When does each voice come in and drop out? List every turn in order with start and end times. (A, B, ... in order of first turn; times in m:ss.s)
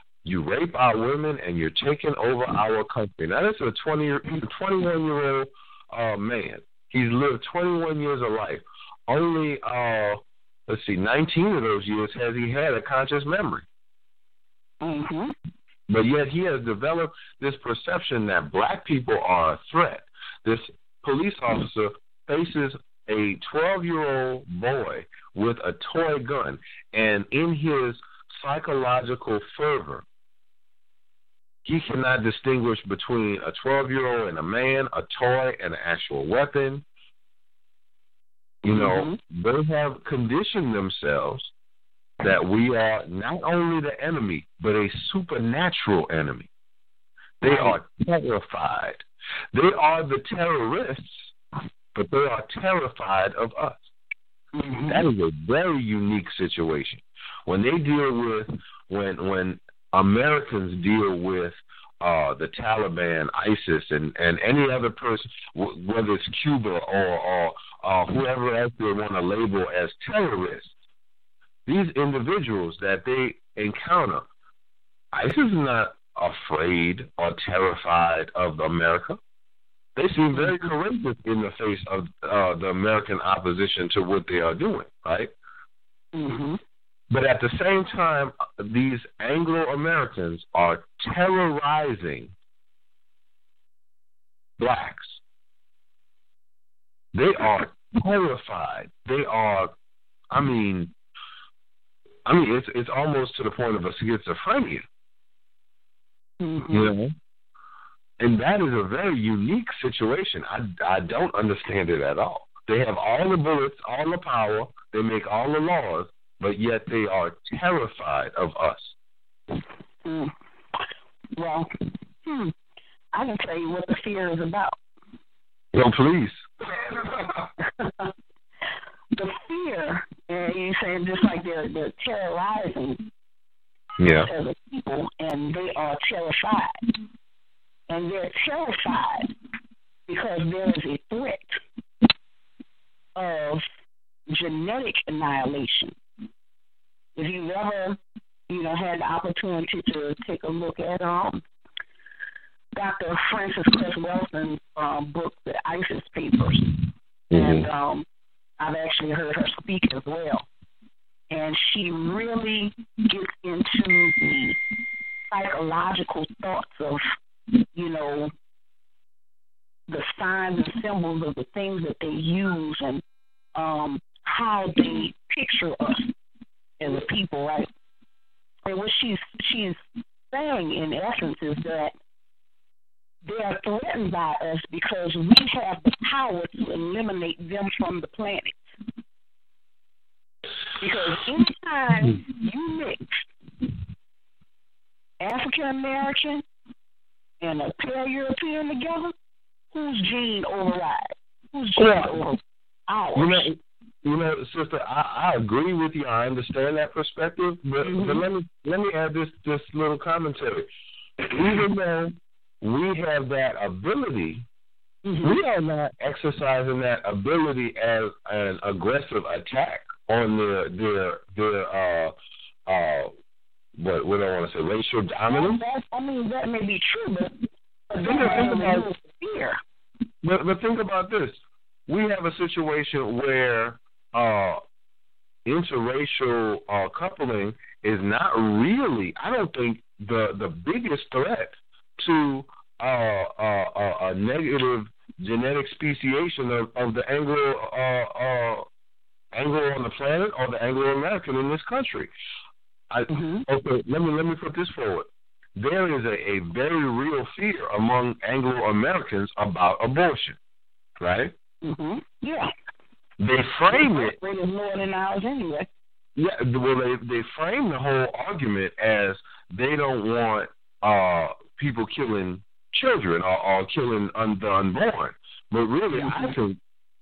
0:00.2-0:13.6 A
0:14.8-0:15.4 B
0:15.9-0:30.0 A
0:31.6-0:36.8 A
0:38.6-0:41.5 A
0:38.7-0:39.2 B
0:42.2-0:46.5 A
0:47.4-0:51.3 A
0:47.4-0:47.8 B
0:51.9-0:53.9 A
0:54.5-0:55.0 B
0:54.9-1:10.7 A
1:11.7-1:14.3 A
1:15.1-1:19.2 A
1:20.0-1:25.3 A
1:20.3-1:20.6 B
1:26.1-1:26.6 B
1:27.1-1:32.3 A
1:34.6-1:35.2 A
1:37.1-1:39.7 A
1:40.3-1:40.9 A
1:42.3-1:44.8 A
1:46.4-1:46.9 B
1:46.7-1:47.1 A
1:48.2-1:58.9 A
2:00.0-2:00.3 B
2:01.4-2:02.5 B
2:03.1-2:04.8 B
2:05.7-2:06.4 A
2:07.6-2:08.1 B
2:09.2-2:13.1 B
2:14.0-2:14.3 A
2:14.1-2:16.8 B
2:17.9-2:19.3 B
2:20.1-2:21.6 B
2:23.2-2:23.6 B
2:24.3-2:26.0 B
2:27.2-2:31.4 B
2:32.7-2:36.8 B
2:37.3-2:37.7 A
2:37.3-2:38.0 B
2:38.6-2:40.5 B
2:41.3-2:44.6 B
2:45.3-2:47.0 B
2:47.8-2:48.3 B
2:49.9-2:53.0 B
2:53.6-2:56.1 B
2:56.8-2:57.7 B
2:58.7-2:59.8 B
3:00.3-3:01.9 B
3:03.2-3:08.6 B
3:10.8-3:13.3 B
3:15.2-3:16.4 B
3:17.4-3:19.2 B
3:19.7-3:23.5 B
3:21.8-3:22.3 A
3:23.2-3:30.7 A
3:27.8-3:28.2 B
3:31.3-3:34.5 A
3:35.0-3:35.4 B
3:35.2-3:42.1 A
3:42.7-3:43.1 A
3:43.8-3:45.6 A
3:45.3-3:47.4 B
3:47.9-3:49.6 B
3:48.0-3:48.9 A
3:50.2-3:54.6 A
3:55.5-4:08.7 A
4:09.3-4:12.1 A
4:12.9-4:20.4 A
4:13.1-4:13.5 B
4:21.0-4:21.3 A
4:21.6-4:22.5 B
4:23.2-4:24.2 A
4:23.7-4:25.7 B
4:26.2-4:36.6 A
4:35.9-4:36.4 B